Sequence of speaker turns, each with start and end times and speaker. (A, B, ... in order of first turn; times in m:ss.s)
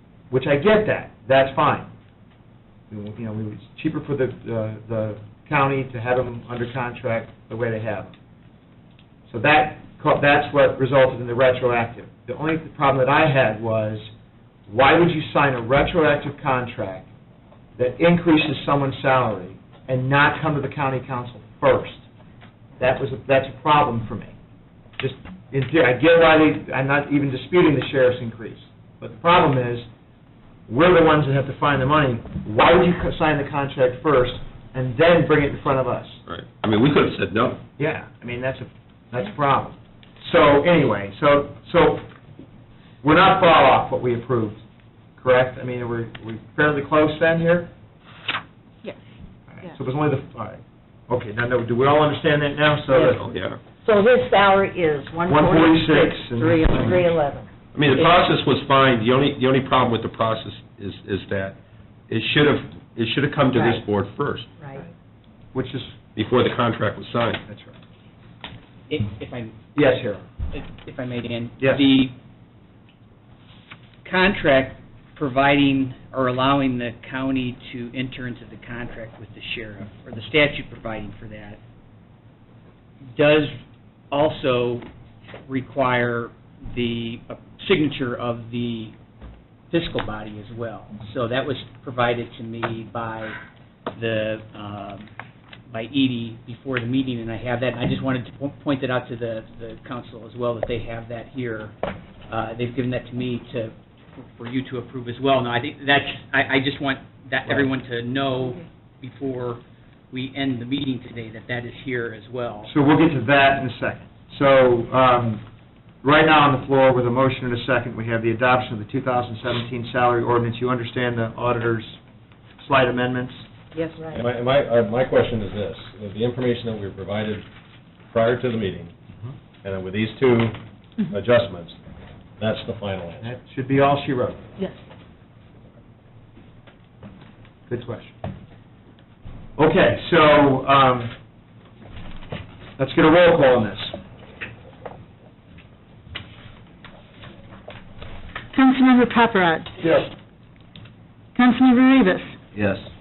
0:00.3-0:01.9 A
0:02.9-0:08.1 A
0:09.3-0:14.1 A
0:14.7-0:17.1 A
0:17.8-0:22.0 A
0:22.8-0:24.4 A
0:25.0-0:29.9 A
0:30.7-0:36.2 A
0:36.3-0:37.6 B
0:37.8-0:42.1 A
0:43.0-0:44.6 A
0:45.2-0:47.7 A
0:48.8-0:49.7 C
0:49.5-0:53.2 A
0:52.9-0:53.2 D
0:53.0-0:53.6 B
0:53.8-0:57.5 D
0:55.3-0:57.0 A
0:57.7-1:01.6 B
1:02.1-1:04.5 B
1:05.5-1:06.0 A
1:06.2-1:07.4 B
1:07.5-1:07.8 A
1:08.9-1:09.6 E
1:09.8-1:10.3 A
1:10.5-1:12.1 E
1:14.0-1:21.6 E
1:23.1-1:23.6 E
1:24.1-1:24.9 E
1:25.5-1:28.9 E
1:29.7-1:33.4 E
1:33.9-1:35.1 E
1:35.7-1:41.7 E
1:42.3-1:52.7 E
1:52.7-1:55.4 A
1:56.0-2:02.0 A
2:02.6-2:03.5 A
2:03.7-2:04.0 E
2:04.1-2:07.4 F
2:08.1-2:08.9 F
2:09.6-2:10.6 F
2:11.1-2:11.8 F
2:12.4-2:13.3 F
2:13.2-2:14.4 A
2:17.7-2:18.2 A
2:19.6-2:21.1 A
2:22.8-2:24.0 A
2:28.5-2:29.8 C
2:29.8-2:30.1 A
2:31.4-2:32.4 C
2:32.6-2:32.8 B